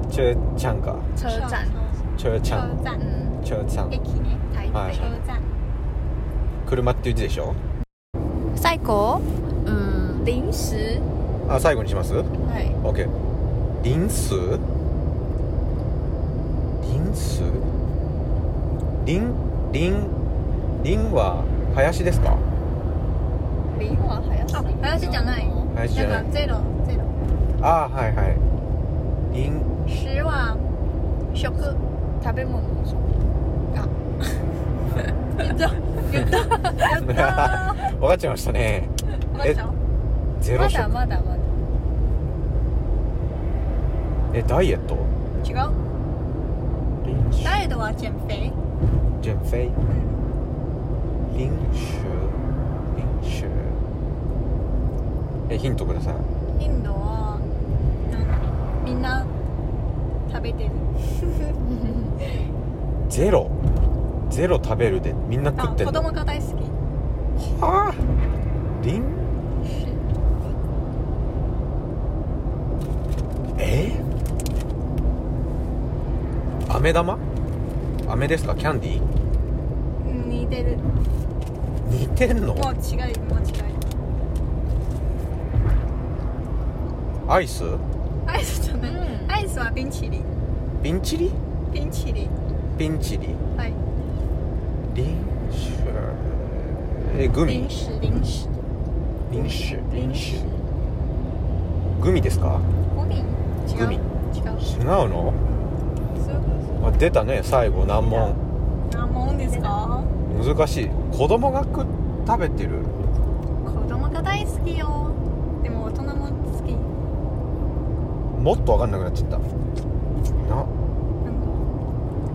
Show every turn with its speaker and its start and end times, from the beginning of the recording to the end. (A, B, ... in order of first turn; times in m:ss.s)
0:00.1-0:01.1 A
0:01.2-0:01.8 B
0:01.2-0:03.0 C
0:02.2-0:02.8 A
0:03.0-0:03.4 B
0:03.4-0:03.9 A
0:03.9-0:05.5 C
0:04.5-0:05.2 B
0:04.7-0:05.1 A
0:06.6-0:07.6 A
0:08.6-0:11.1 B
0:11.5-0:12.3 A
0:12.4-0:12.8 B
0:12.8-0:13.1 A
0:13.8-0:14.6 A
0:16.8-0:17.7 A
0:19.0-0:20.2 A
0:20.8-0:22.4 A
0:23.7-0:25.7 B
0:24.5-0:27.2 C
0:25.7-0:26.3 A
0:27.6-0:28.4 A
0:29.3-0:29.7 A
0:29.9-0:30.6 C
0:31.4-0:31.8 C
0:32.2-0:33.2 B
0:35.4-0:37.9 C
0:36.9-0:39.6 A
0:39.3-0:39.8 C
0:40.4-0:41.0 A
0:40.5-0:41.5 B
0:44.3-0:45.1 A
0:45.4-0:45.8 C
0:47.0-0:47.6 A
0:47.4-0:48.6 C
0:49.2-0:49.8 A
0:49.9-0:50.3 C
0:51.3-0:52.4 A
0:52.9-0:53.8 A
0:55.5-0:56.3 A
0:56.6-0:57.4 C
0:58.1-0:59.3 C
1:00.3-1:01.6 C
1:03.1-1:03.6 A
1:04.3-1:06.1 A
1:05.6-1:06.8 C
1:07.4-1:08.1 A
1:08.8-1:09.3 A
1:13.6-1:14.0 A
1:16.7-1:17.2 A
1:18.1-1:19.0 A
1:20.0-1:20.9 C
1:21.8-1:22.7 A
1:22.5-1:23.8 C
1:27.3-1:27.8 A
1:28.3-1:30.3 C
1:28.8-1:29.3 B
1:30.8-1:31.4 A
1:31.7-1:32.3 C
1:32.8-1:33.4 A
1:34.9-1:37.8 A
1:37.4-1:38.5 C
1:39.3-1:40.5 A
1:39.3-1:40.6 C
1:42.0-1:42.7 A
1:42.9-1:44.7 C
1:43.7-1:44.0 A
1:44.6-1:45.4 A
1:45.5-1:46.8 C
1:46.8-1:48.4 A
1:47.8-1:48.3 C
1:48.9-1:50.1 C
1:50.3-1:52.9 A
1:53.6-1:56.9 C
1:58.4-1:59.4 A
2:00.4-2:00.7 A
2:01.2-2:01.7 C